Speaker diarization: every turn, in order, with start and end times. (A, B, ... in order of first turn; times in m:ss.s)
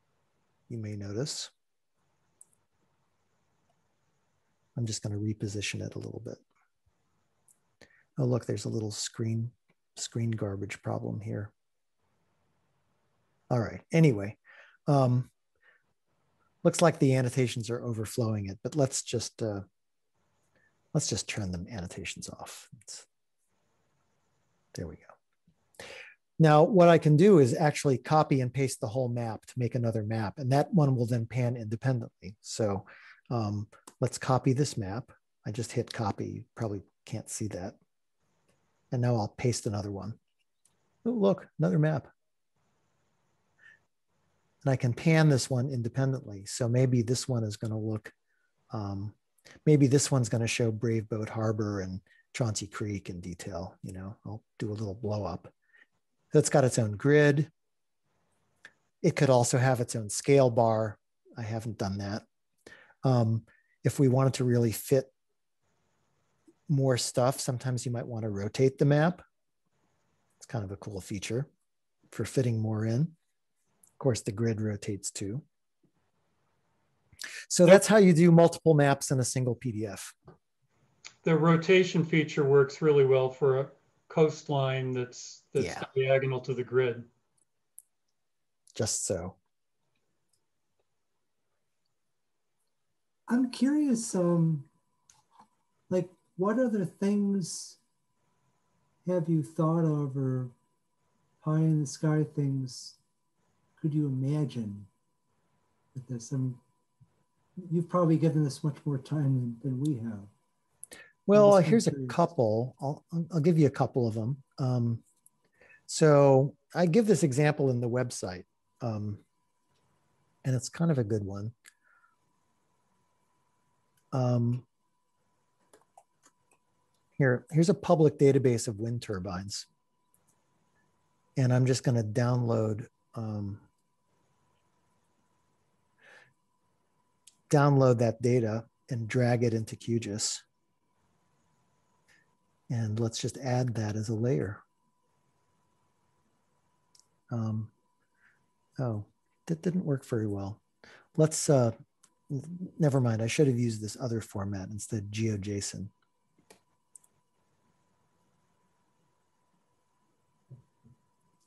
0:00.7-0:01.5 A
0:04.8-0:06.4 A
0:08.2-0:11.5 A
0:13.5-0:15.3 A
0:16.6-0:19.6 A
0:20.9-0:23.0 A
0:24.7-0:25.1 A
0:26.4-0:37.8 A
0:38.9-0:40.2 A
0:41.0-0:42.1 A
0:44.6-0:48.1 A
0:48.7-0:49.1 A
0:49.6-0:55.5 A
0:56.3-0:57.5 A
0:59.0-1:02.2 A
1:03.0-1:05.1 A
1:06.7-1:09.2 A
1:10.4-1:11.5 A
1:12.1-1:13.1 A
1:14.0-1:15.4 A
1:17.5-1:20.1 A
1:21.2-1:27.1 B
1:25.6-1:25.8 A
1:28.8-1:29.4 A
1:33.3-1:34.7 C
1:35.9-1:37.8 C
1:39.0-1:40.5 C
1:41.4-1:43.0 C
1:43.8-1:44.9 C
1:45.9-1:46.6 C
1:47.6-1:50.3 C
1:51.3-1:55.0 A
1:51.3-1:52.2 C
1:55.9-1:59.2 A
2:00.4-2:01.5 A
2:04.1-2:04.6 A
2:07.2-2:09.7 A
2:11.4-2:13.6 A
2:17.5-2:20.4 A
2:22.7-2:24.6 A
2:27.3-2:27.7 A
2:28.8-2:30.6 A
2:31.2-2:31.7 A
2:32.3-2:35.9 A